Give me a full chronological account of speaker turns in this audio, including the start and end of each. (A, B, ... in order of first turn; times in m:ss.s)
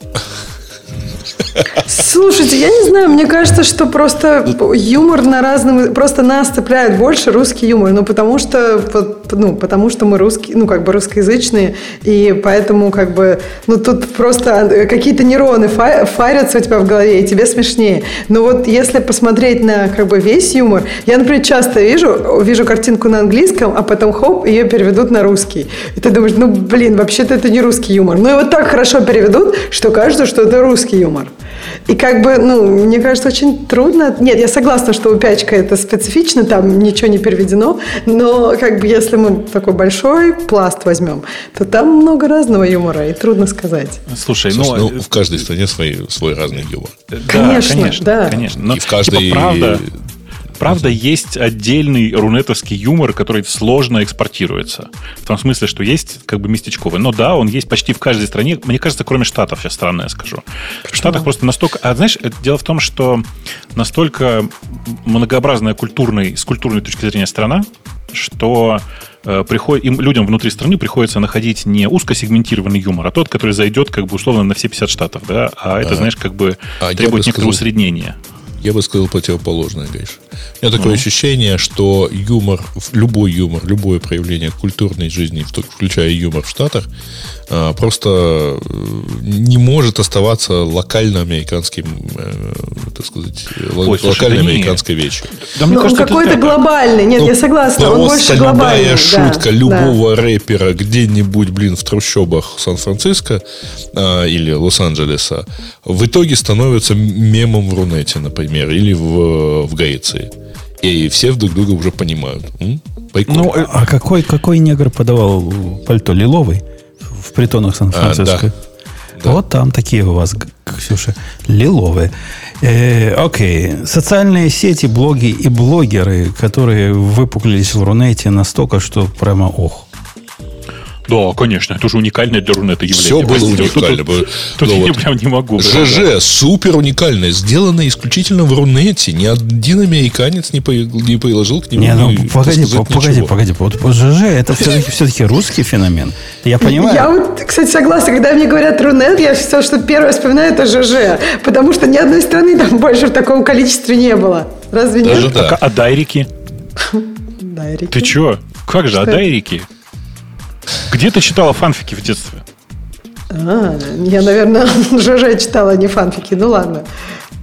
0:01.8-0:31.3 A
0:31.9-0:44.0 A
0:44.1-0:45.0 B
0:44.5-0:47.0 C
0:47.1-0:49.8 B
0:47.3-0:48.4 A
0:48.4-0:49.9 C
0:50.6-1:18.2 B
0:50.6-0:50.9 C
1:00.9-1:01.3 A
1:15.8-1:16.1 C
1:16.8-1:17.6 C
1:18.6-1:26.9 C
1:20.8-1:21.0 B
1:27.5-1:35.4 C
1:33.8-1:34.8 B
1:35.3-1:36.6 B
1:35.7-1:40.0 A
1:37.2-1:53.7 C
1:53.3-1:58.5 D
1:57.9-1:58.5 C
1:59.2-2:09.9 D
2:11.1-2:16.1 B
2:12.9-2:15.0 C
2:15.6-2:23.4 C
2:21.8-2:27.1 D
2:26.6-2:35.4 A
2:35.0-2:35.6 C
2:35.0-2:36.3 B
2:36.8-2:38.1 A
2:37.9-2:39.7 B
2:40.9-2:42.4 B
2:43.3-2:46.9 A